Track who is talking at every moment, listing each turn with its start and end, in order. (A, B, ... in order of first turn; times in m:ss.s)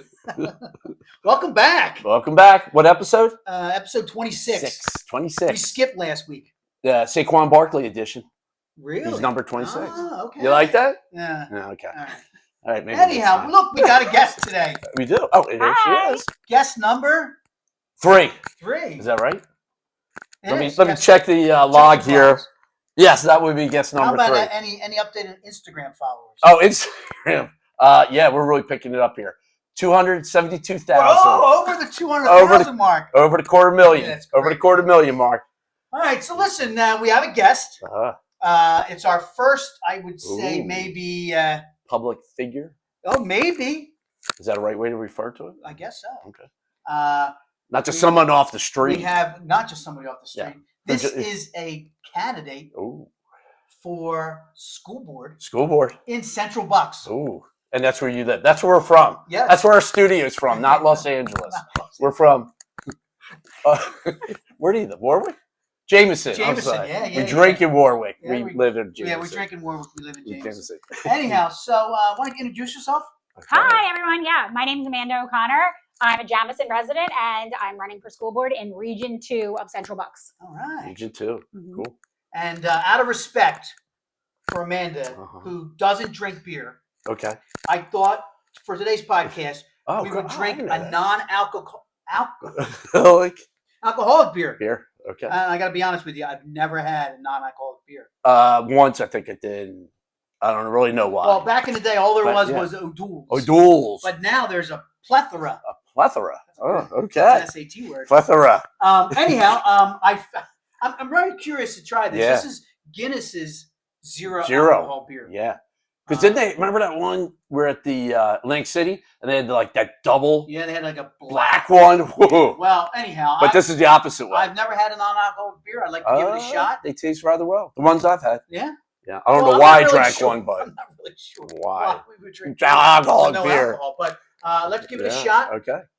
0:00.3-0:00.7 A
0:01.2-0:02.0 A
0:02.0-0:03.4 B
0:03.4-0:04.8 A
0:04.4-0:05.8 B
0:05.5-0:06.5 A
0:06.8-0:08.2 B
0:08.8-0:12.2 A
0:09.0-0:11.0 B
0:11.5-0:11.9 B
0:12.6-0:13.5 B
0:12.9-0:14.8 A
0:14.9-0:16.3 B
0:15.6-0:16.2 C
0:16.4-0:17.4 A
0:18.0-0:18.4 B
0:18.6-0:19.1 A
0:19.0-0:19.4 B
0:20.4-0:22.5 A
0:20.5-0:22.4 B
0:23.0-0:24.5 B
0:24.0-0:26.5 A
0:26.4-0:31.7 B
0:30.9-0:33.1 A
0:32.2-0:35.4 B
0:33.8-0:34.9 A
0:35.9-0:37.8 A
0:37.8-0:38.2 B
0:38.4-0:41.6 A
0:40.2-0:40.9 B
0:41.9-0:42.7 B
0:43.0-0:43.9 A
0:44.4-0:45.6 B
0:45.6-0:46.3 A
0:46.8-0:47.3 A
0:47.7-0:49.1 B
0:47.9-0:48.3 A
0:48.8-0:52.7 A
0:50.3-0:51.3 B
0:52.7-0:53.1 B
0:53.7-0:55.4 A
0:55.4-0:56.0 B
0:56.0-0:57.1 A
0:57.0-1:02.5 B
0:59.2-0:59.6 A
1:00.5-1:02.1 A
1:03.6-1:05.4 B
1:05.9-1:09.4 B
1:06.3-1:13.1 A
1:10.2-1:11.4 B
1:13.4-1:13.8 B
1:13.5-1:20.3 C
1:20.4-1:21.0 A
1:20.8-1:21.9 B
1:21.5-1:21.8 C
1:22.3-1:23.7 A
1:24.5-1:26.8 A
1:25.2-1:25.5 B
1:27.0-1:27.4 B
1:27.6-1:32.5 A
1:29.8-1:31.0 B
1:32.5-1:33.4 B
1:33.8-1:34.6 A
1:34.6-1:35.3 B
1:35.3-1:38.1 A
1:38.2-1:39.9 B
1:40.4-1:41.4 B
1:41.2-1:45.6 A
1:42.2-1:42.7 B
1:43.3-1:44.1 B
1:45.6-1:47.5 B
1:46.6-1:48.1 A
1:48.1-1:49.4 B
1:48.8-1:55.3 A
1:52.1-1:52.5 B
1:54.4-2:00.5 B
1:56.1-1:56.4 A
2:00.4-2:03.7 A
2:01.3-2:02.6 B
2:03.4-2:04.5 B
2:04.3-2:06.8 A
2:06.0-2:08.4 B
2:08.5-2:08.7 A
2:09.0-2:10.7 B
2:09.3-2:15.5 A
2:11.5-2:13.8 B
2:14.8-2:15.8 B